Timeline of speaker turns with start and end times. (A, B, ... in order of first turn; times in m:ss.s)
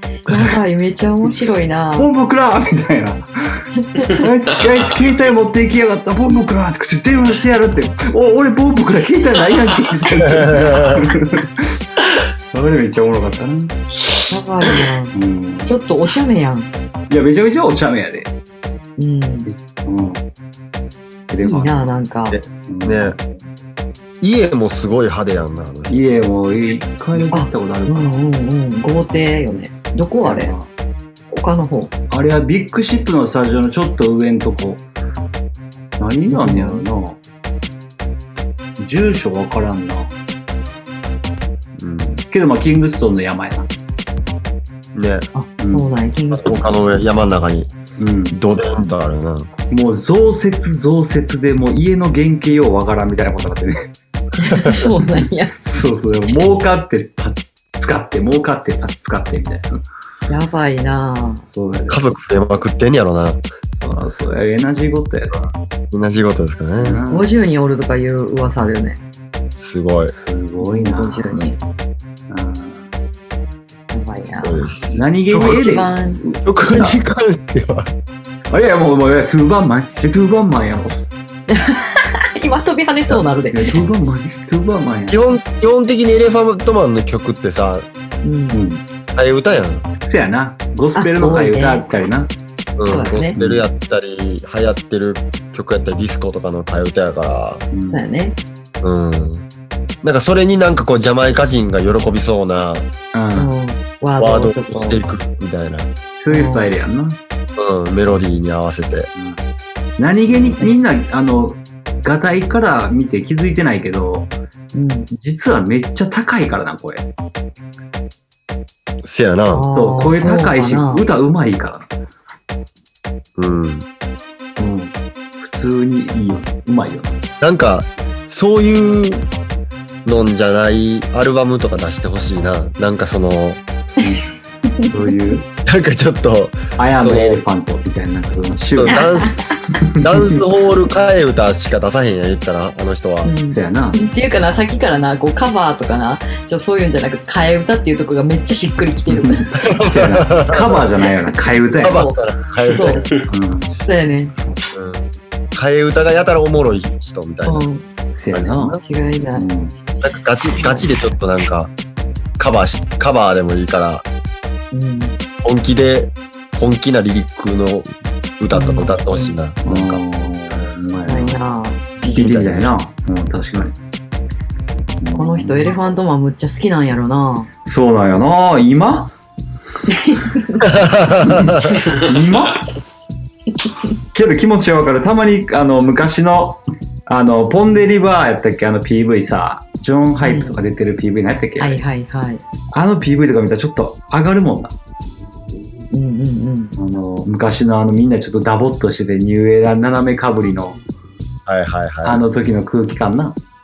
0:00.3-0:02.1 A
0:02.0-0:11.7 B
0:03.8-0:04.2 A
0:10.3-0:11.0 C
0:12.5-0:13.8 B
0:14.3-0:15.1 A
0:15.1-0:15.7 B
0:15.6-0:16.7 A
0:17.1-0:18.3 B
0:19.0-0:19.5 A
0:19.5-0:20.2 B
0:21.3-0:21.8 B
0:21.4-0:22.4 A
0:22.3-0:23.2 C
0:22.7-0:23.3 B
0:24.2-0:26.0 C
0:25.9-0:28.2 B
0:27.3-0:30.5 A
0:30.1-0:30.7 B
0:31.3-0:31.9 A
0:32.1-0:34.8 B
0:36.0-0:37.2 B
0:36.3-0:36.8 A
0:38.8-0:40.1 B
0:41.8-0:42.2 C
0:42.3-0:43.7 B
0:44.9-0:45.3 C
0:45.3-0:46.8 A
0:45.6-0:45.9 B
0:46.3-0:47.7 C
0:48.0-0:48.4 B
0:48.3-0:49.5 C
0:49.7-0:53.9 B
0:54.4-0:55.5 A
0:55.6-0:59.8 B
1:00.3-1:01.4 A
1:01.5-1:02.1 B
1:01.9-1:03.4 C
1:03.7-1:05.4 B
1:05.9-1:07.0 C
1:06.8-1:07.3 B
1:07.1-1:09.0 A
1:09.6-1:10.1 C
1:10.0-1:11.4 B
1:10.6-1:11.6 A
1:12.3-1:12.8 B
1:13.9-1:14.6 A
1:14.3-1:15.6 C
1:14.9-1:17.0 B
1:15.3-1:16.2 A
1:16.4-1:17.9 C
1:18.5-1:21.0 B
1:21.5-1:23.8 A
1:23.5-1:25.3 B
1:25.1-1:27.9 C
1:28.2-1:28.6 A
1:28.5-1:28.8 B
1:29.1-1:29.8 C
1:30.0-1:32.3 B
1:31.0-1:31.8 A
1:32.8-1:37.6 C
1:32.9-1:33.4 A
1:33.3-1:33.6 B
1:37.7-1:38.0 B
1:37.9-1:38.4 A
1:38.8-1:39.4 C
1:40.0-1:42.9 C
1:43.1-1:43.5 B
1:43.3-1:45.0 A
1:44.2-1:45.9 C
1:46.2-1:47.2 B
1:46.3-1:46.7 A
1:47.6-1:49.1 C
1:49.1-1:49.4 B
1:50.0-1:54.3 B
1:50.3-1:50.6 C
1:54.7-1:55.1 A
1:55.2-1:57.0 B
1:59.0-1:59.7 C
1:59.5-2:01.0 A
1:59.7-2:01.9 B
2:03.4-2:03.8 C
2:04.6-2:07.2 B
2:07.4-2:09.3 C
2:10.0-2:13.6 C
2:14.7-2:15.1 A
2:14.9-2:15.4 B
2:15.6-2:17.4 C
2:16.8-2:19.1 B
2:18.7-2:19.3 C
2:18.9-2:19.3 A
2:20.0-2:23.3 C
2:23.2-2:29.5 A
2:23.5-2:24.0 B
2:29.1-2:32.0 B
2:29.6-2:30.9 C
2:31.8-2:33.2 C
2:31.8-2:33.1 A
2:33.2-2:33.7 B
2:33.8-2:34.3 A
2:34.7-2:37.6 C
2:37.4-2:37.8 A
2:38.2-2:38.8 B
2:38.3-2:38.8 C
2:38.8-2:39.5 A
2:39.4-2:39.7 B
2:40.0-2:41.7 C
2:40.5-2:40.9 A
2:42.4-2:44.0 C
2:44.7-2:45.2 A
2:45.4-2:50.0 C
2:48.5-2:49.3 A
2:49.6-2:51.4 B
2:51.1-2:52.2 A
2:52.0-2:53.7 B
2:52.1-2:52.7 C
2:55.0-2:55.7 B
2:55.1-2:57.5 A
2:57.6-2:59.1 B
2:59.9-3:00.6 A
3:00.6-3:01.8 C
3:01.2-3:02.7 B
3:03.6-3:03.9 A
3:04.1-3:11.8 B
3:10.2-3:10.6 A
3:11.6-3:12.4 A
3:12.7-3:14.7 B
3:15.9-3:16.7 A
3:16.8-3:20.8 B
3:21.4-3:22.2 C
3:22.0-3:23.4 B